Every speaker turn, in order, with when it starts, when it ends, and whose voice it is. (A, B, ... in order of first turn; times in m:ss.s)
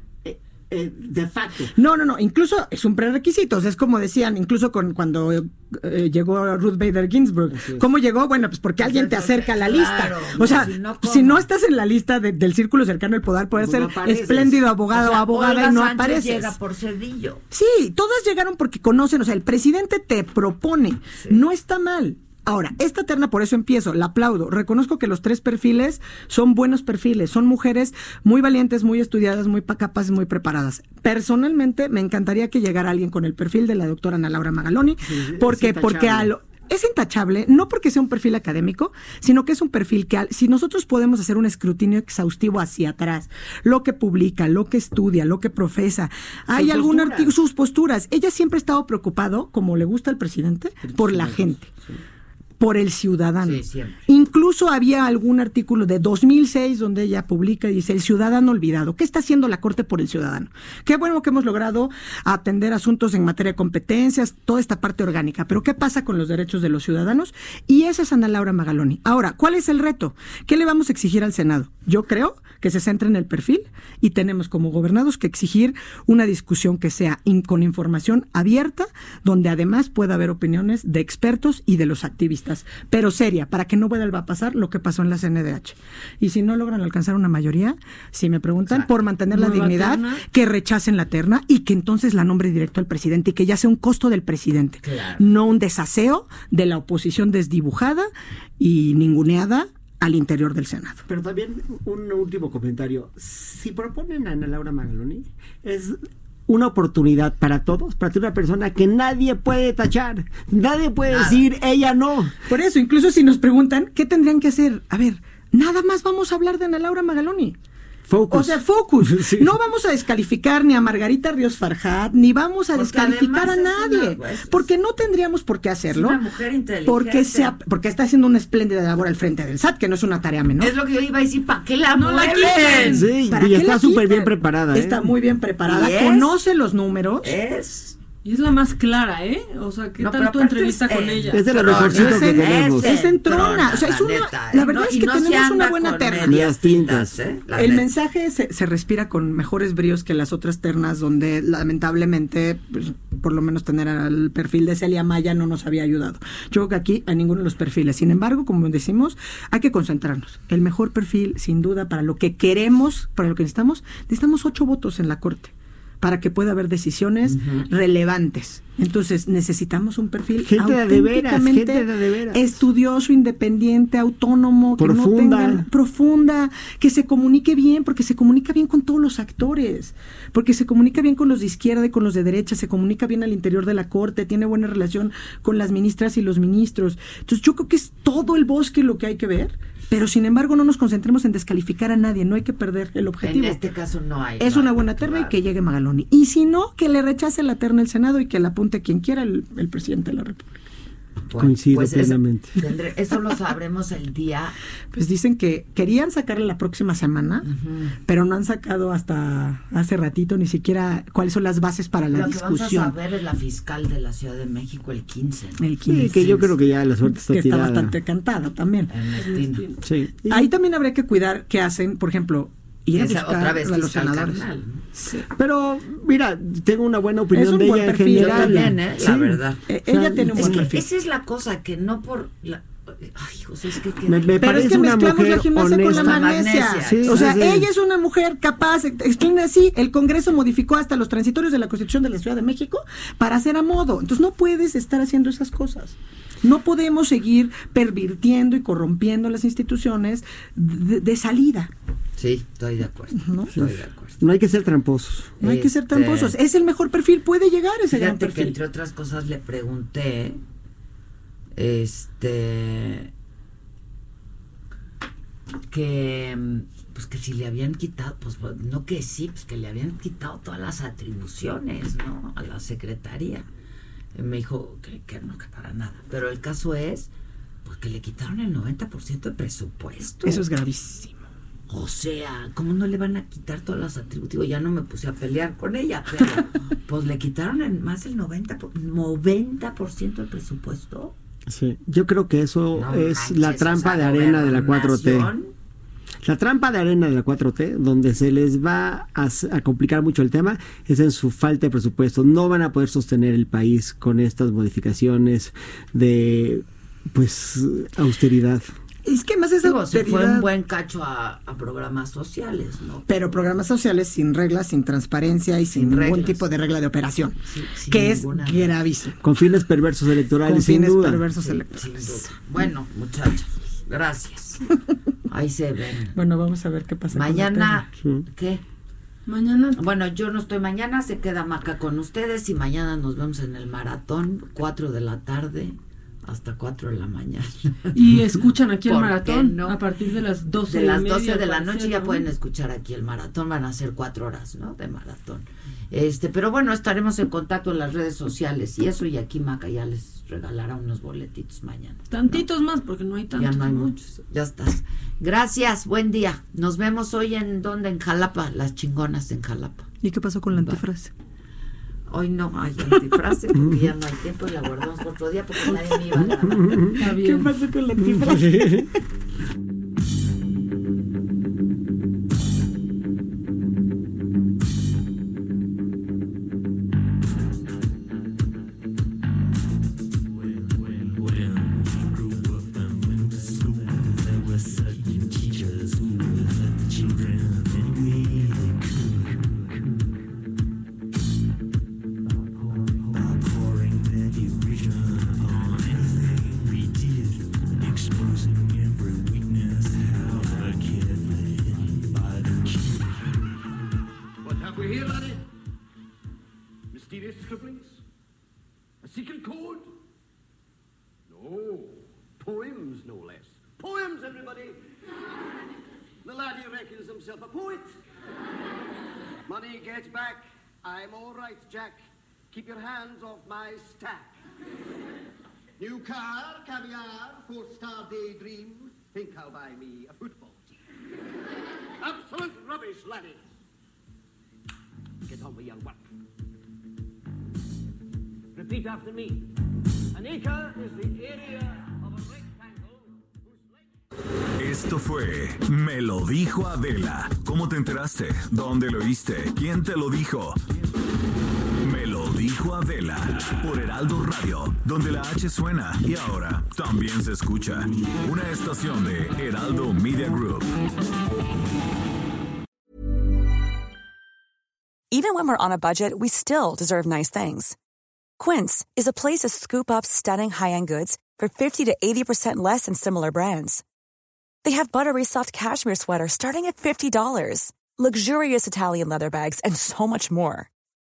0:00.2-0:01.7 A
0:01.8-0:16.5 B
0:07.6-0:07.8 A
0:08.8-0:11.5 C
0:13.6-0:14.6 A
0:14.9-0:17.4 C
0:17.5-0:51.7 B
0:35.1-0:36.3 A
0:46.5-0:47.3 A
0:50.8-0:52.0 A
0:52.6-1:41.0 B
0:53.4-0:54.0 C
1:29.3-1:30.2 D
1:34.8-1:35.2 C
1:41.1-1:52.4 A
1:51.0-1:51.5 C
1:52.4-1:57.6 B
1:58.1-1:59.5 A
1:58.3-2:06.2 B
2:02.7-2:04.6 C
2:05.9-2:07.6 C
2:06.8-2:10.7 B
2:10.6-2:13.2 C
2:12.0-2:13.1 D
2:12.8-2:15.0 A
2:13.3-2:17.4 B
2:15.6-2:16.4 C
2:17.2-2:18.0 C
2:18.2-2:21.7 D
2:20.0-2:27.8 C
2:21.3-2:22.9 A
2:21.8-2:26.4 B
2:26.2-2:27.1 A
2:27.5-3:13.6 B
2:50.4-2:52.5 A
2:54.8-2:55.6 A
3:13.2-3:15.4 C
3:14.4-3:20.5 B
3:21.3-3:24.6 C
3:21.4-3:22.5 A
3:24.9-3:27.5 B
3:27.4-3:27.9 C
3:28.0-3:32.9 B
3:32.1-3:35.6 C
3:35.6-3:36.4 B
3:35.9-3:37.9 A
3:37.0-3:38.9 B
3:38.9-3:39.7 C
3:39.2-3:39.8 D
3:39.8-3:40.4 A
3:40.3-3:45.2 B
3:42.9-3:44.8 C
3:45.3-3:50.6 A
3:47.3-3:48.8 B
3:48.2-3:49.6 C
3:49.7-3:50.8 B
3:50.4-3:54.7 C
3:54.0-3:56.2 A
3:54.4-4:11.7 B
3:55.8-3:57.3 C
3:56.8-3:57.7 A
4:12.2-4:14.2 C
4:13.2-4:13.5 B
4:13.5-4:15.4 A
4:15.4-4:18.6 B
4:15.4-4:16.3 C
4:17.9-4:20.4 C
4:21.6-4:23.1 C
4:25.7-4:33.5 C
4:34.2-4:37.1 C
4:37.6-4:40.4 C
4:40.2-4:41.3 B
4:41.7-4:51.2 C
4:51.5-4:55.3 A
4:52.8-4:55.5 C
4:56.2-5:08.7 A
5:09.1-5:10.4 B
5:09.6-5:13.4 C
5:13.1-5:17.4 B
5:15.7-5:16.4 C
5:17.4-5:18.7 C
5:17.9-5:19.2 B
5:19.2-5:21.2 A
5:20.4-5:22.3 B
5:21.4-5:24.6 C
5:25.3-5:26.1 C
5:26.2-5:27.9 B
5:27.1-5:28.6 C
5:29.3-5:29.8 D
5:29.8-5:37.9 C
5:37.9-5:42.2 D
5:38.8-5:39.8 C
5:40.6-5:52.4 C
5:52.1-5:53.9 D
5:53.3-5:59.9 C
6:00.0-6:01.1 B
6:02.1-6:06.7 C
6:03.6-6:03.8 A
6:06.2-6:06.9 A
6:07.0-6:07.5 D
6:07.1-6:08.8 B
6:08.1-6:08.8 A
6:24.2-6:27.2 C
6:28.2-6:28.5 C
6:32.5-6:34.4 C
6:35.4-6:36.6 C
6:44.4-6:45.4 E
6:46.9-6:48.0 E
6:49.0-6:49.9 E
6:51.3-6:54.8 E
6:56.2-6:57.9 E
6:59.5-7:04.3 E
7:05.8-7:10.8 E
7:12.0-7:13.5 E
7:15.3-7:16.1 E
7:18.6-7:19.5 E
7:20.1-7:23.9 E
7:24.6-7:30.6 F
7:31.8-7:40.7 F
7:45.1-7:47.7 G
7:48.4-7:53.8 G
7:54.6-8:00.7 G